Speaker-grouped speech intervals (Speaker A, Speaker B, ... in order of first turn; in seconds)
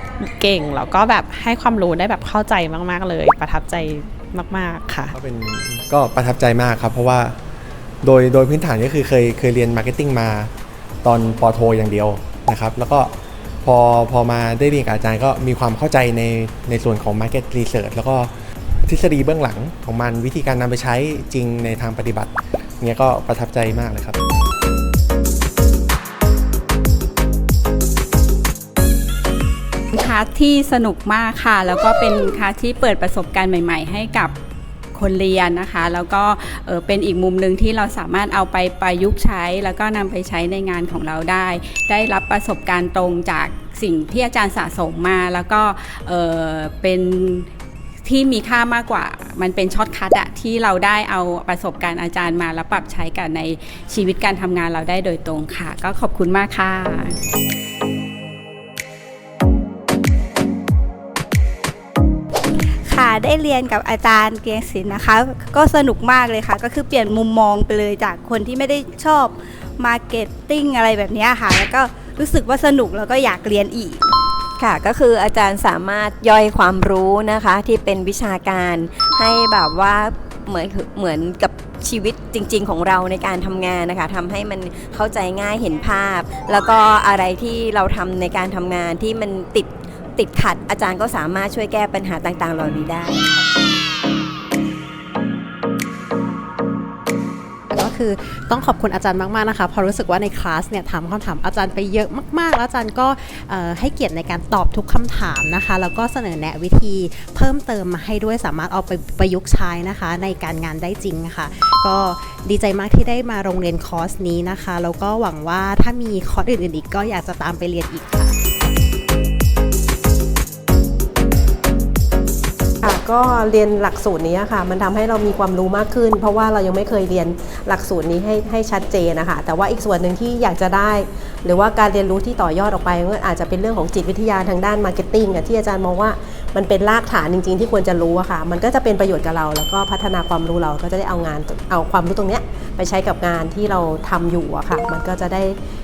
Speaker A: 0.2-5.1
Speaker B: 5.1-7.3, 8.0-10.5, 11.0-18.3, 18.9-24.2
Speaker C: 29.9-34.3, 34.9-47.5, 48.0-57.2
Speaker D: 62.9-69.3, 70.0-71.8, 72.4-74.0
Speaker E: 74.6-93.2
Speaker F: 97.7-118.3
Speaker G: 122.8-145.6